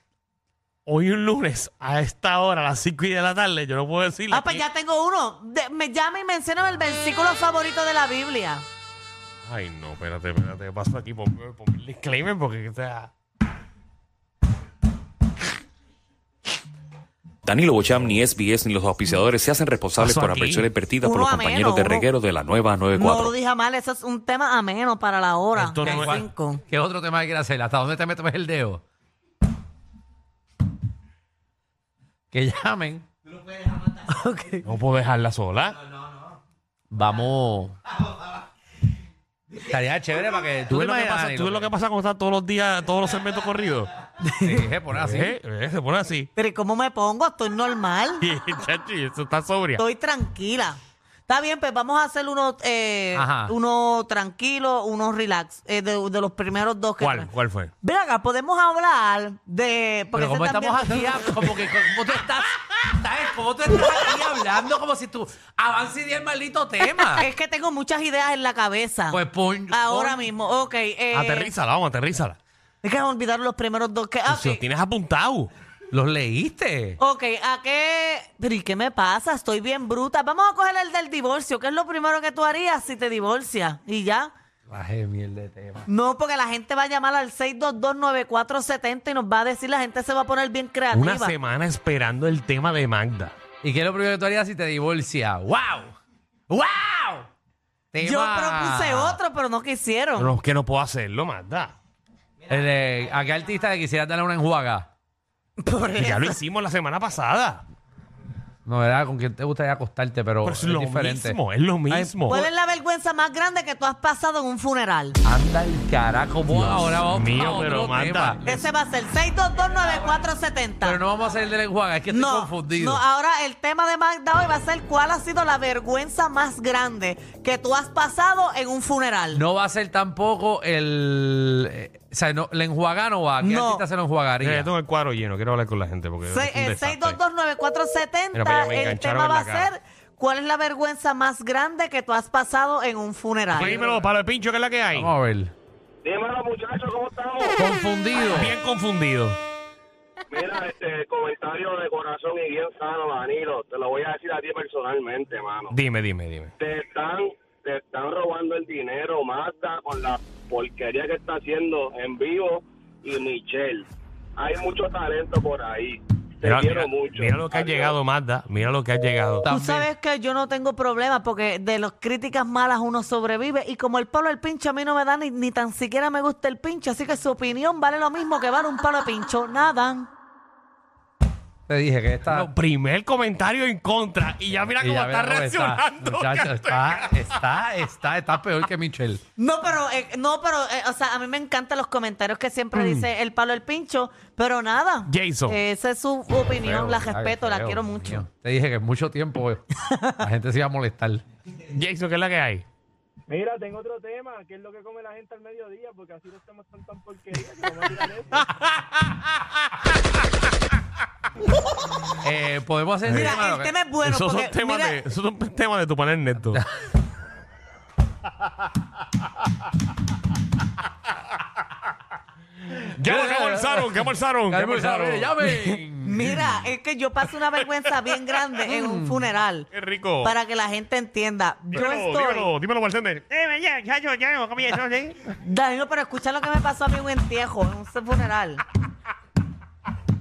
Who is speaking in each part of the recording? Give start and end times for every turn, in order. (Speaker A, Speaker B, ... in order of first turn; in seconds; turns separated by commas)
Speaker A: 0.9-4.7, Speaker B: 4.3-8.7, Speaker A: 9.4-13.1, Speaker C: 17.4-23.3, Speaker A: 20.0-20.7, Speaker B: 21.0-22.1, Speaker B: 23.0-26.6, Speaker A: 25.6-26.2, Speaker D: 25.6-28.8, Speaker D: 32.3-33.1, Speaker B: 34.0-34.6, Speaker A: 34.6-35.8, Speaker D: 36.9-37.8, Speaker D: 39.6-41.7, Speaker A: 40.7-43.9, Speaker B: 44.2-44.6, Speaker D: 44.4-45.4, Speaker A: 44.9-46.3, Speaker B: 46.4-48.2, Speaker A: 48.2-49.8, Speaker B: 49.8-57.3, Speaker D: 53.1-53.5, Speaker A: 57.0-57.7, Speaker B: 57.8-61.6, Speaker D: 60.1-67.3, Speaker B: 67.1-71.5, Speaker D: 69.1-70.2, Speaker A: 71.1-72.4, Speaker B: 72.8-74.6, Speaker A: 74.3-75.5, Speaker D: 75.9-77.0, Speaker B: 77.0-84.3, Speaker D: 84.7-85.8, Speaker B: 85.9-91.3, Speaker A: 90.9-93.3, Speaker D: 93.6-96.0, Speaker D: 96.5-97.3, Speaker D: 97.9-99.2, Speaker B: 98.0-100.3, Speaker A: 100.2-101.7, Speaker D: 102.5-104.9, Speaker B: 105.6-106.4, Speaker A: 106.0-107.7, Speaker D: 108.7-112.2, Speaker A: 110.4-112.5, Speaker B: 112.3-115.2, Speaker D: 115.2-118.6, Speaker A: 116.5-118.4, Speaker B: 118.5-121.0, Speaker D: 120.8-123.0, Speaker B: 122.1-129.4, Speaker D: 129.3-134.7, Speaker B: 133.4-133.8, Speaker A: 134.4-137.2, Speaker B: 136.3-143.8, Speaker A: 138.3-139.7, Speaker A: 143.5-145.1, Speaker E: 143.6-144.1, Speaker D: 144.9-145.5, Speaker E: 146.0-147.6, Speaker D: 147.6-148.6, Speaker A: 148.3-149.4, Speaker E: 150.3-155.8, Speaker A: 155.7-156.5, Speaker E: 156.6-168.0, Speaker A: 166.4-169.5, Speaker B: 169.4-180.1, Speaker D: 169.4-169.9, Speaker D: 181.7-182.5, Speaker A: 182.2-187.1, Speaker D: 184.7-189.2, Speaker B: 189.4-198.2, Speaker D: 192.8-193.1, Speaker A: 195.1-195.6, Speaker D: 196.6-199.7, Speaker B: 199.8-200.2, Speaker D: 200.2-201.2, Speaker A: 201.7-202.7, Speaker F: 203.3-208.4, Speaker A: 208.4-209.0, Speaker D: 212.2-213.7, Speaker A: 213.1-213.4, Speaker B: 213.1-215.0, Speaker A: 214.0-216.6, Speaker A: 222.9-225.4, Speaker D: 223.0-226.5, Speaker B: 225.4-229.7, Speaker A: 227.6-228.3, Speaker D: 228.7-229.2, Speaker A: 229.7-230.3, Speaker B: 230.2-232.5, Speaker A: 231.7-235.3, Speaker B: 235.4-238.6